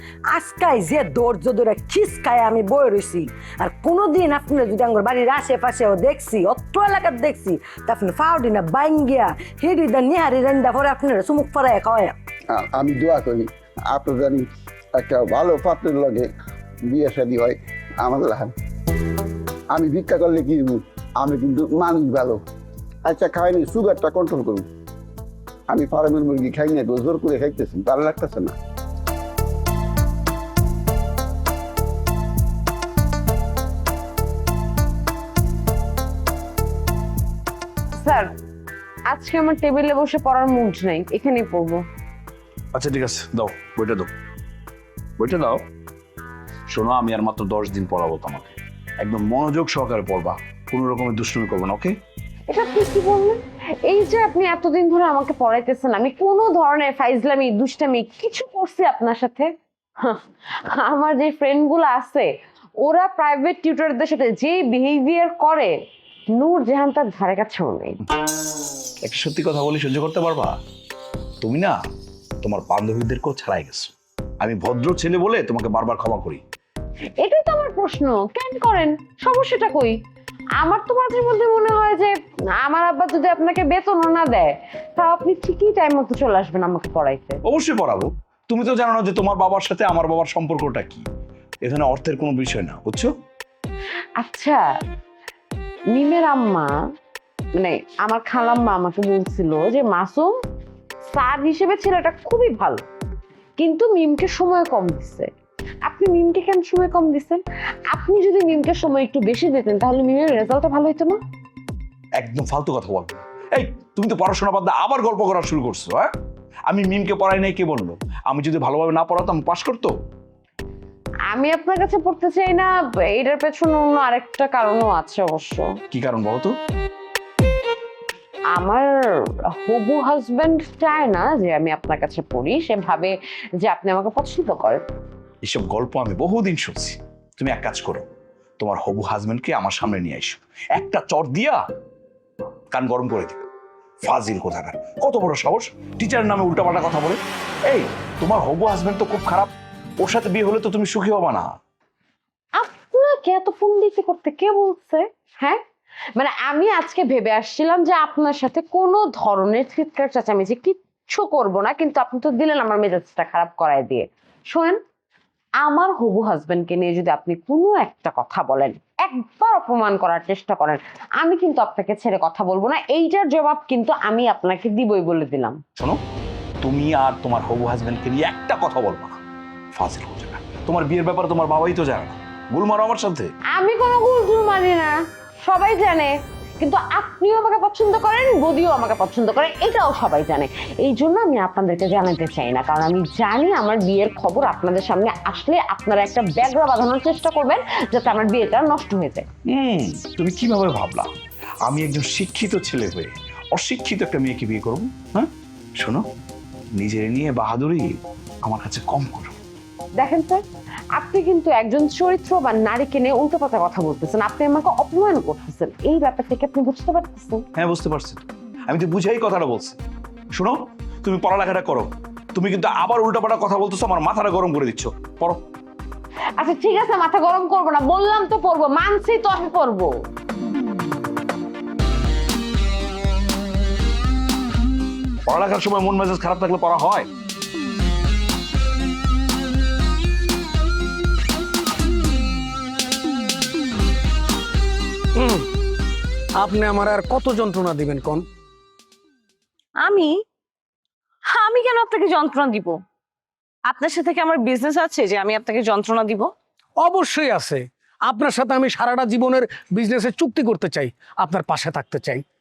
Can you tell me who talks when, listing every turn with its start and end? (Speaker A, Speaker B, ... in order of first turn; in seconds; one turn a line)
Speaker A: 0.3-12.2
Speaker B: 12.5-16.3
Speaker B: 16.9-18.5
Speaker B: 19.7-22.4
Speaker B: 23.1-24.7
Speaker B: 25.7-28.6
Speaker C: 38.0-38.3
Speaker C: 39.1-41.9
Speaker D: 42.7-44.1
Speaker D: 45.2-45.6
Speaker D: 46.7-51.9
Speaker C: 52.5-65.7
Speaker C: 66.3-68.0
Speaker D: 69.0-70.6
Speaker D: 71.4-71.8
Speaker D: 72.4-76.4
Speaker C: 77.2-80.0
Speaker C: 80.6-87.4
Speaker D: 87.5-91.0
Speaker D: 91.6-93.1
Speaker C: 94.2-94.6
Speaker C: 95.9-96.7
Speaker C: 97.6-100.3
Speaker C: 101.1-102.8
Speaker C: 103.6-105.3
Speaker C: 105.8-111.2
Speaker D: 112.2-116.1
Speaker D: 116.7-119.9
Speaker C: 121.3-125.8
Speaker D: 125.9-126.5
Speaker C: 128.5-128.9
Speaker C: 129.6-134.8
Speaker D: 135.4-138.1
Speaker D: 138.6-141.6
Speaker D: 142.7-143.5
Speaker D: 144.0-151.5
Speaker C: 152.6-155.6
Speaker C: 156.2-164.8
Speaker C: 165.6-175.6
Speaker D: 176.6-179.2
Speaker D: 179.8-183.3
Speaker C: 183.5-199.3
Speaker D: 199.5-201.1
Speaker D: 201.7-206.1
Speaker D: 206.8-209.4
Speaker C: 210.0-210.4
Speaker C: 210.9-217.4
Speaker D: 217.6-219.8
Speaker D: 220.3-225.4
Speaker C: 226.4-229.9
Speaker D: 235.3-237.1
Speaker E: 245.2-245.4
Speaker E: 246.4-248.2
Speaker F: 249.8-250.2
Speaker F: 251.3-252.8
Speaker F: 253.7-256.3
Speaker E: 256.8-262.2